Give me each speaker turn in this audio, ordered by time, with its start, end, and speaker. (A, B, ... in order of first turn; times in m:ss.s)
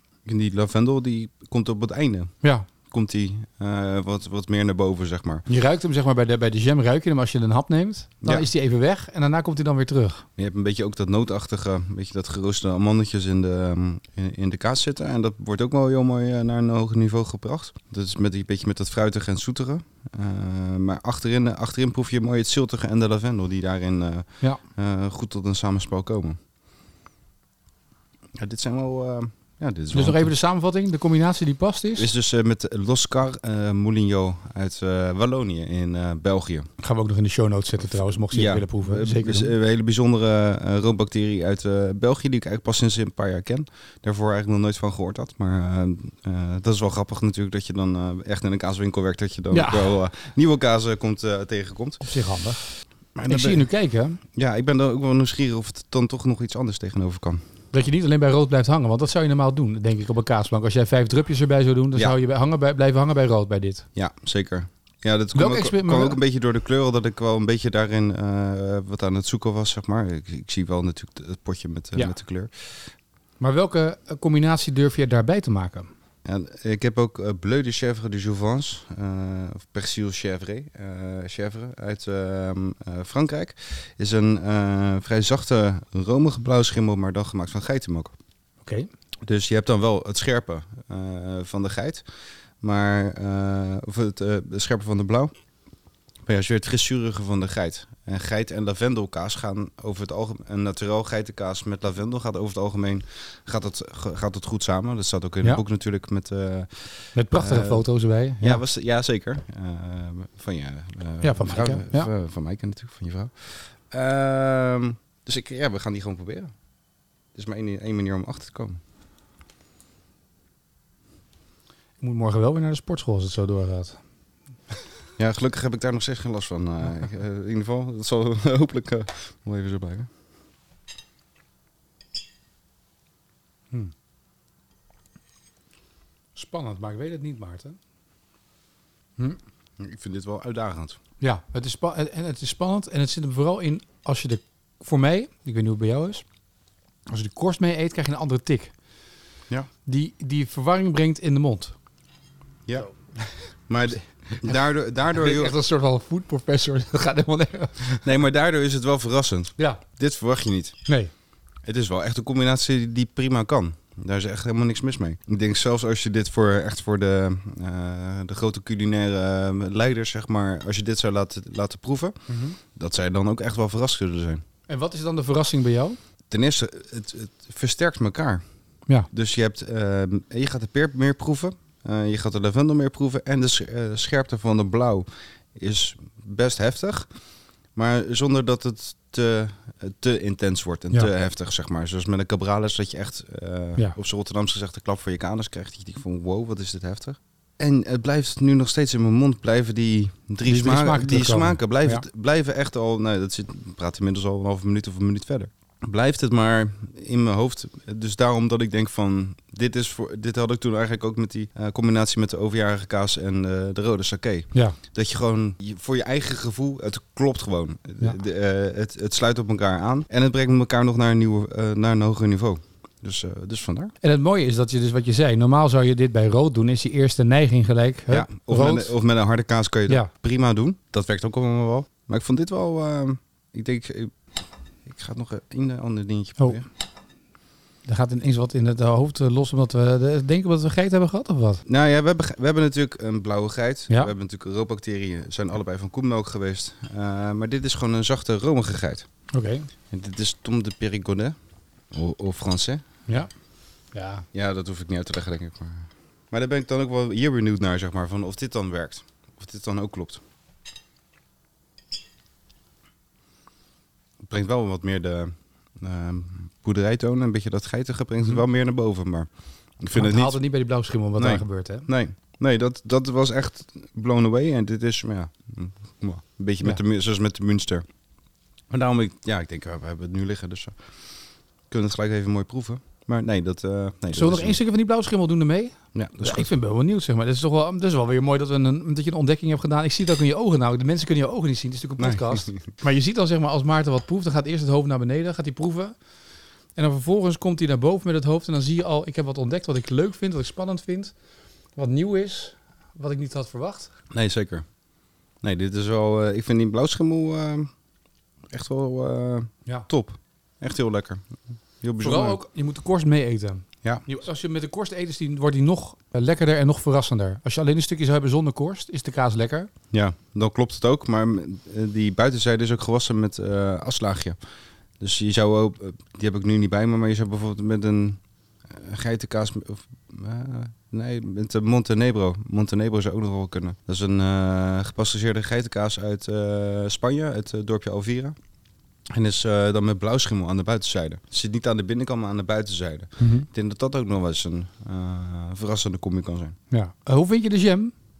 0:00.2-0:02.3 A
0:02.4-0:02.7 B
0:02.9-0:05.4 A
0:05.5-0:10.2 B
0:08.2-0:08.5 A
0:10.4-0:26.4 A
0:28.4-0:30.3 A
0:29.9-0:32.1 B
0:32.0-0:36.7 A
0:36.8-0:39.5 B
0:38.2-0:52.0 A
0:49.5-0:50.0 B
0:52.0-0:52.6 B
0:53.2-0:53.6 A
0:53.2-0:54.2 B
0:54.3-0:57.4 A
0:57.7-1:03.8 B
1:04.0-1:12.7 A
1:05.3-1:06.2 B
1:13.4-1:15.9 B
1:16.2-1:28.1 A
1:28.6-1:28.9 B
1:29.2-1:32.0 A
1:32.6-1:35.3 A
1:36.2-1:47.9 A
1:47.1-1:48.6 B
1:48.4-1:56.5 A
1:51.2-1:52.1 B
1:57.3-1:58.8 A
2:02.0-2:04.0 B
2:05.2-2:10.1 A
2:16.4-2:17.8 B
2:19.8-2:21.0 A
2:21.2-2:26.2 B
2:27.1-2:28.7 B
2:29.8-2:31.8 B
2:32.7-2:33.4 B
2:33.7-2:35.6 A
2:34.5-2:38.0 B
2:38.0-2:40.8 A
2:40.8-2:41.1 B
2:41.6-2:54.4 A
2:52.3-2:52.6 B
2:54.7-2:56.0 B
2:56.3-2:58.4 A
2:59.1-3:07.1 A
3:07.7-3:43.9 A
3:20.4-3:22.0 B
3:34.5-3:34.8 B
3:44.0-3:48.9 B
3:48.1-3:54.1 A
3:54.8-3:56.6 A
3:57.8-4:01.6 B
4:01.6-4:09.0 A
4:09.3-4:09.7 B
4:09.9-4:11.4 A
4:11.9-4:12.8 A
4:13.9-4:14.2 B
4:14.3-4:20.2 A
4:24.2-4:29.3 A
4:29.8-4:30.4 A
4:29.9-4:31.9 B
4:31.2-4:37.8 A
4:38.7-4:40.7 A
4:41.7-4:44.6 A
4:44.1-4:55.9 B
4:45.9-4:46.5 A
4:52.0-4:52.7 A
4:56.8-5:01.1 B
5:01.8-5:03.9 B
5:04.1-5:04.6 A
5:05.4-5:07.7 A
5:08.5-5:11.2 A
5:11.8-5:12.4 A
5:12.0-5:19.7 B
5:19.9-5:24.4 A
5:25.0-5:28.2 A
5:28.7-5:38.4 A
5:39.1-5:46.5 A
5:43.2-5:43.5 B
5:46.7-5:47.9 B